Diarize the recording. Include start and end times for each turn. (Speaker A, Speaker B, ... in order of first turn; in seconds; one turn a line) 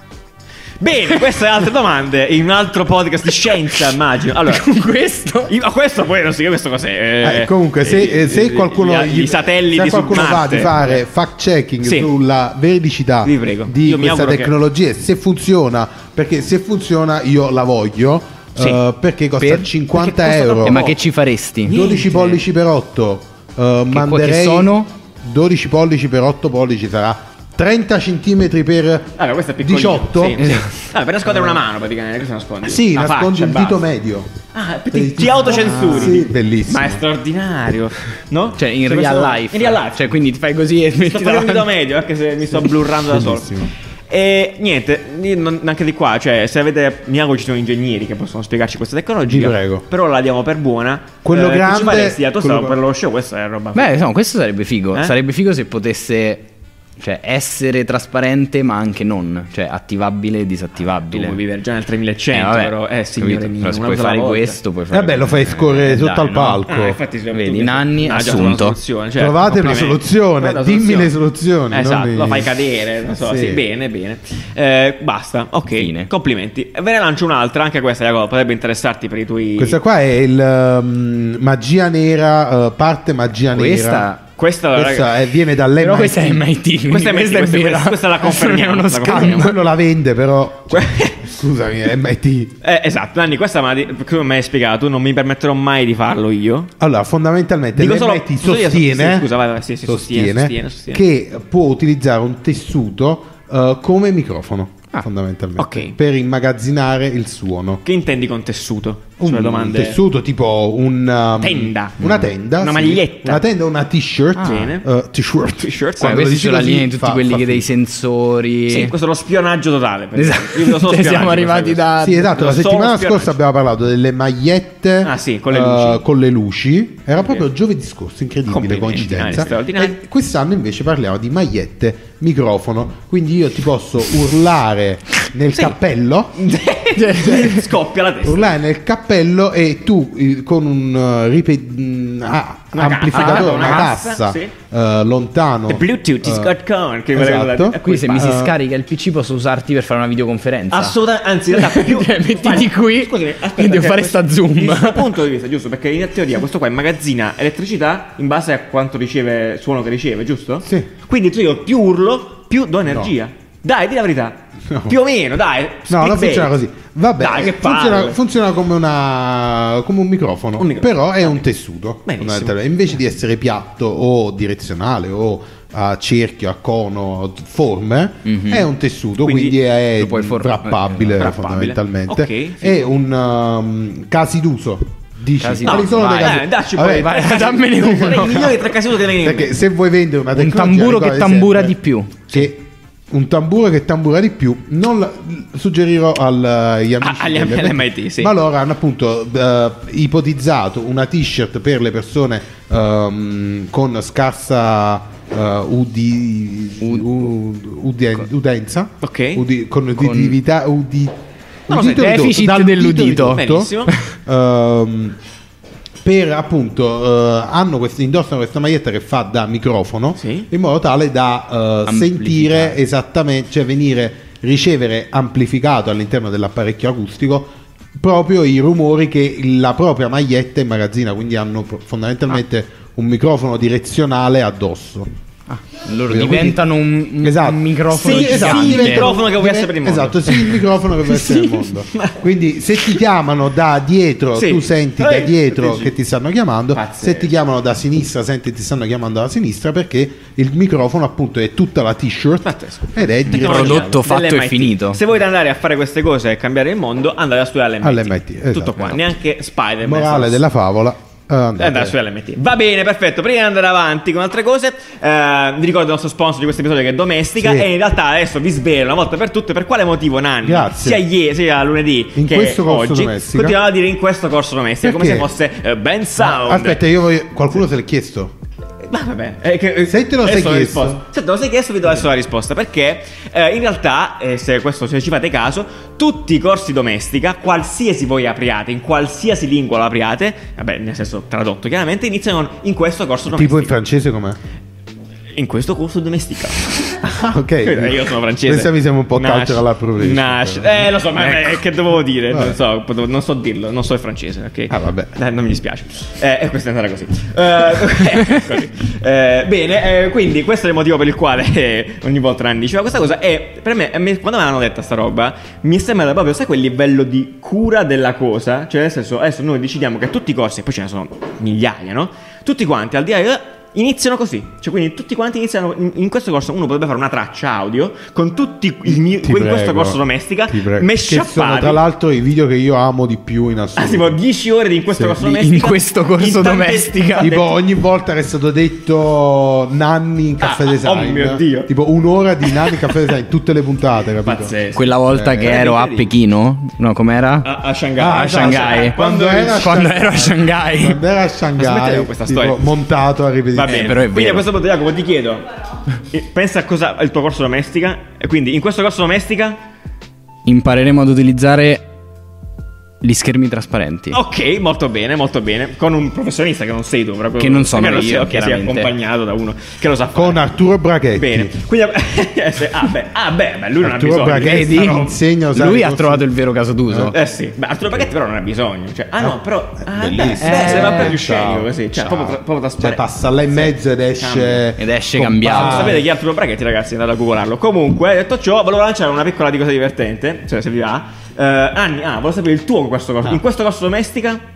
Speaker A: 0.8-4.7
Speaker B: 4.4-5.5
Speaker A: 5.5-11.0
Speaker C: 7.2-20.9
Speaker A: 11.8-12.1
Speaker A: 13.2-14.5
Speaker B: 19.4-19.7
Speaker A: 19.9-21.0
Speaker B: 20.6-21.8
Speaker A: 21.6-22.4
Speaker C: 21.7-30.5
Speaker B: 23.9-24.9
Speaker A: 29.2-33.8
Speaker B: 30.4-30.7
Speaker C: 31.3-31.6
Speaker C: 32.6-34.3
Speaker A: 34.5-40.1
Speaker C: 34.9-37.0
Speaker B: 35.5-36.2
Speaker B: 38.6-41.7
Speaker A: 41.0-54.0
Speaker C: 43.1-43.7
Speaker C: 49.2-49.8
Speaker C: 51.2-52.8
Speaker B: 53.7-56.5
Speaker B: 57.0-61.4
Speaker A: 61.1-64.6
Speaker B: 62.3-66.6
Speaker C: 64.9-67.0
Speaker A: 66.7-71.1
Speaker B: 67.3-68.8
Speaker C: 69.2-72.5
Speaker A: 71.7-79.8
Speaker C: 73.2-73.6
Speaker B: 75.7-76.1
Speaker C: 79.6-84.1
Speaker B: 83.5-84.2
Speaker A: 84.4-85.2
Speaker C: 84.7-86.4
Speaker B: 85.8-89.6
Speaker A: 86.9-89.5
Speaker C: 89.1-92.5
Speaker A: 90.7-91.3
Speaker A: 92.6-96.7
Speaker C: 96.8-99.3
Speaker A: 97.8-101.0
Speaker C: 99.8-107.8
Speaker A: 105.6-105.9
Speaker A: 107.8-110.0
Speaker C: 109.2-117.7
Speaker A: 111.4-113.4
Speaker B: 114.3-114.7
Speaker A: 114.4-114.8
Speaker A: 115.6-116.2
Speaker B: 116.0-118.9
Speaker A: 118.7-123.3
Speaker B: 120.1-122.3
Speaker C: 122.0-136.4
Speaker A: 125.0-126.0
Speaker A: 128.5-130.0
Speaker A: 136.3-138.5
Speaker B: 137.0-137.7
Speaker C: 138.2-146.5
Speaker A: 142.7-144.5
Speaker B: 143.1-143.9
Speaker A: 145.7-148.4
Speaker C: 147.1-148.5
Speaker B: 147.8-151.0
Speaker A: 150.7-166.5
Speaker B: 151.5-155.1
Speaker C: 160.6-160.9
Speaker C: 162.9-163.1
Speaker C: 164.7-164.9
Speaker C: 165.9-187.2
Speaker A: 167.2-168.2
Speaker A: 170.6-171.4
Speaker A: 172.1-172.6
Speaker B: 178.2-178.7
Speaker A: 179.2-179.6
Speaker B: 180.0-181.3
Speaker A: 181.2-182.9
Speaker B: 185.4-188.6
Speaker A: 185.6-189.5
Speaker C: 187.8-188.4
Speaker C: 189.2-191.8
Speaker B: 190.3-192.5
Speaker C: 192.3-211.1
Speaker A: 197.0-198.3
Speaker A: 209.0-209.4
Speaker B: 210.0-210.4
Speaker C: 211.7-215.2
Speaker A: 211.7-212.3
Speaker B: 211.8-214.1
Speaker A: 213.2-213.9
Speaker C: 216.0-235.1
Speaker A: 220.2-220.5
Speaker B: 221.8-222.8
Speaker B: 235.5-239.1
Speaker C: 236.1-236.6
Speaker C: 237.2-254.0
Speaker A: 237.9-240.6
Speaker A: 244.3-245.9
Speaker A: 246.7-247.3
Speaker A: 252.4-260.4
Speaker B: 253.3-255.0
Speaker C: 257.8-259.0
Speaker C: 259.8-261.9
Speaker A: 261.6-276.8
Speaker C: 267.4-267.7
Speaker C: 270.4-271.0
Speaker C: 272.1-273.6
Speaker C: 274.8-275.3
Speaker C: 276.2-278.3
Speaker A: 278.8-293.8
Speaker C: 279.9-281.0
Speaker C: 293.3-294.4
Speaker A: 295.3-331.8
Speaker C: 297.0-300.9
Speaker C: 302.3-302.6
Speaker C: 304.7-305.1
Speaker C: 329.1-334.2
Speaker A: 333.8-337.5
Speaker C: 334.9-335.2
Speaker B: 335.2-337.3
Speaker C: 337.2-344.5
Speaker A: 340.4-341.7
Speaker A: 342.4-342.9
Speaker A: 344.2-346.1
Speaker B: 344.7-351.0
Speaker C: 345.1-345.5
Speaker A: 347.4-349.8
Speaker C: 348.0-354.0
Speaker A: 351.6-352.7
Speaker A: 353.5-355.5
Speaker B: 353.7-354.5
Speaker A: 356.1-359.6
Speaker B: 360.4-361.8
Speaker B: 363.0-364.2
Speaker A: 364.1-370.5
Speaker B: 367.4-368.9
Speaker C: 370.1-371.5
Speaker A: 371.1-375.1
Speaker C: 373.8-376.3
Speaker B: 374.4-377.1
Speaker C: 376.9-377.1
Speaker A: 377.1-384.6
Speaker C: 379.2-386.0
Speaker B: 380.4-381.2
Speaker B: 384.8-386.0
Speaker A: 385.5-394.4